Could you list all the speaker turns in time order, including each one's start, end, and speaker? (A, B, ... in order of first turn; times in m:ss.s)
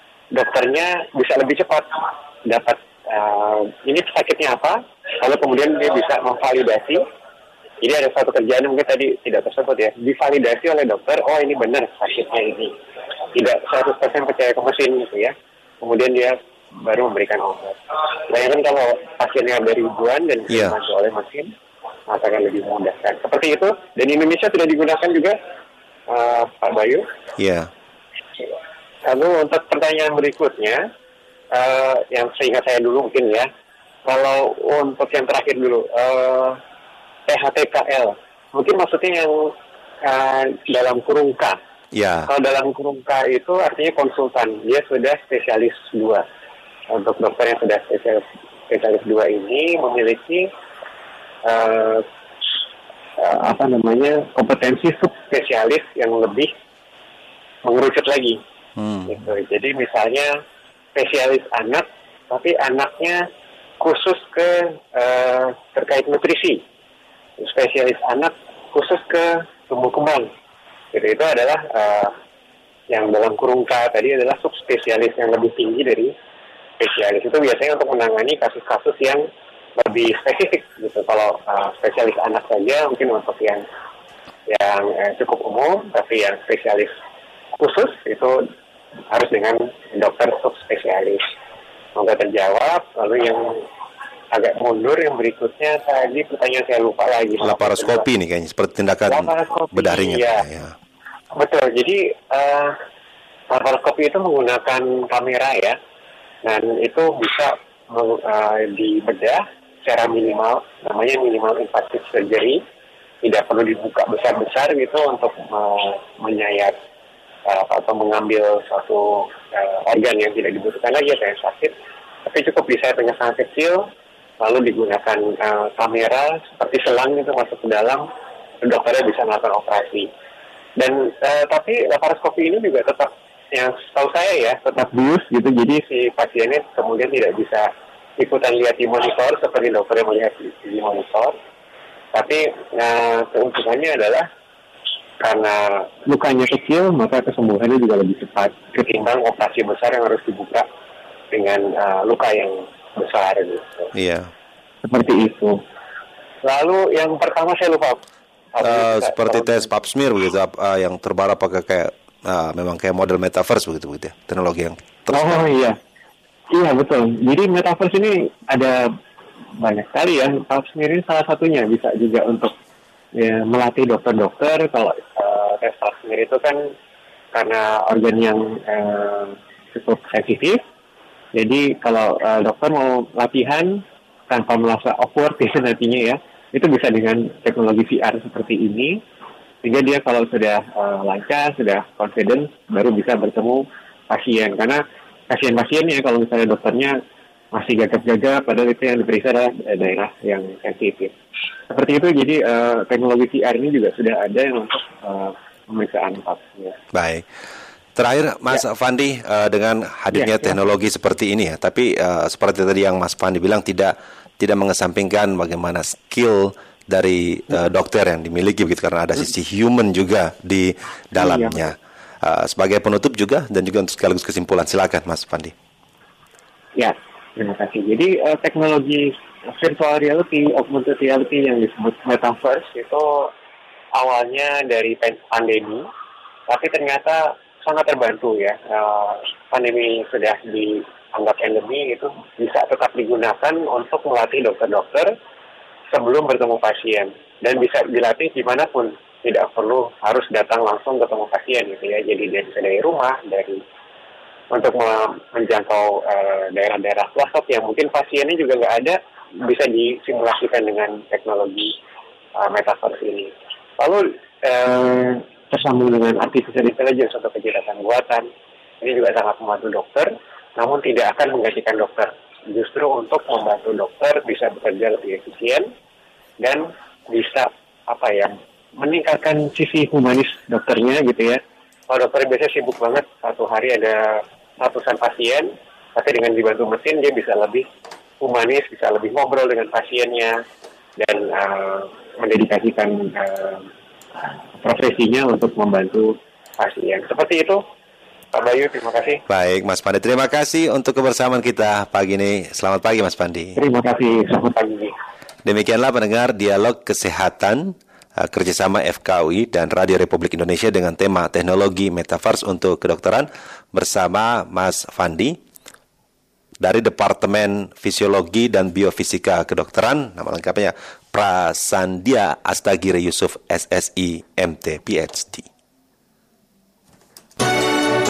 0:00.3-0:07.0 A
0:07.8-0:12.7 A
0:13.3-0:21.5 A
0:20.5-0:20.8 B
0:22.1-0:25.3 A
0:26.1-0:27.0 A
0:27.4-0:27.7 B
0:29.0-0:30.8 A
0:31.5-0:33.5 A
0:34.0-0:36.6 A
0:37.3-0:39.3 A
0:40.0-0:41.6 A
0:41.9-0:42.3 B
0:42.3-0:46.2 A
0:46.9-0:50.4 A
0:51.4-0:52.0 A
0:53.2-0:56.5 A
0:57.6-0:58.4 A
0:58.8-0:59.2 B
0:59.1-1:00.3 A
1:00.9-1:03.2 A
1:03.8-1:06.6 A
1:07.4-1:10.3 A
1:10.9-1:12.1 A
1:12.9-1:16.1 A
1:16.8-1:19.2 A
1:19.8-1:23.6 A
1:24.5-1:26.9 A
1:27.6-1:28.4 A
1:29.1-1:31.2 A
1:32.0-1:33.4 A
1:34.3-1:38.1 A
1:37.4-1:40.7 B
1:39.0-1:40.4 A
1:41.4-1:42.7 A
1:43.5-1:45.8 A
1:46.4-1:52.6 A
1:53.2-1:56.7 A
1:57.5-2:01.7 A
2:02.2-2:03.8 A
2:04.4-2:08.0 A
2:08.6-2:10.1 A
2:10.8-2:21.3 A
2:22.1-2:24.3 A
2:25.2-2:30.6 A
2:31.3-2:33.9 A
2:33.9-2:34.3 B
2:34.8-2:35.6 A
2:36.4-2:38.0 A
2:38.5-2:39.7 A
2:38.6-2:45.4 B
2:45.1-2:45.8 A
2:46.5-2:48.9 A
2:49.6-2:52.5 A
2:53.1-2:56.6 A
2:57.3-3:00.6 A
3:01.3-3:09.0 A
3:09.6-3:16.9 A
3:17.5-3:21.1 A
3:21.7-3:26.8 A
3:26.9-3:27.2 B
3:28.0-3:45.5 B
3:30.1-3:30.5 A
3:41.2-3:41.7 A
3:46.8-3:53.3 A
3:53.9-3:55.8 A
3:56.5-4:05.1 A
4:05.9-4:13.6 A
4:14.5-4:21.7 A
4:22.4-4:28.2 A
4:28.8-4:35.6 A
4:36.4-4:47.6 A
4:48.2-4:50.4 A
4:51.0-4:53.7 A
4:54.6-4:57.6 A
4:58.3-4:59.2 A
4:59.3-5:03.6 B
5:03.6-5:04.9 A
5:05.4-5:15.4 B
5:16.6-5:25.4 B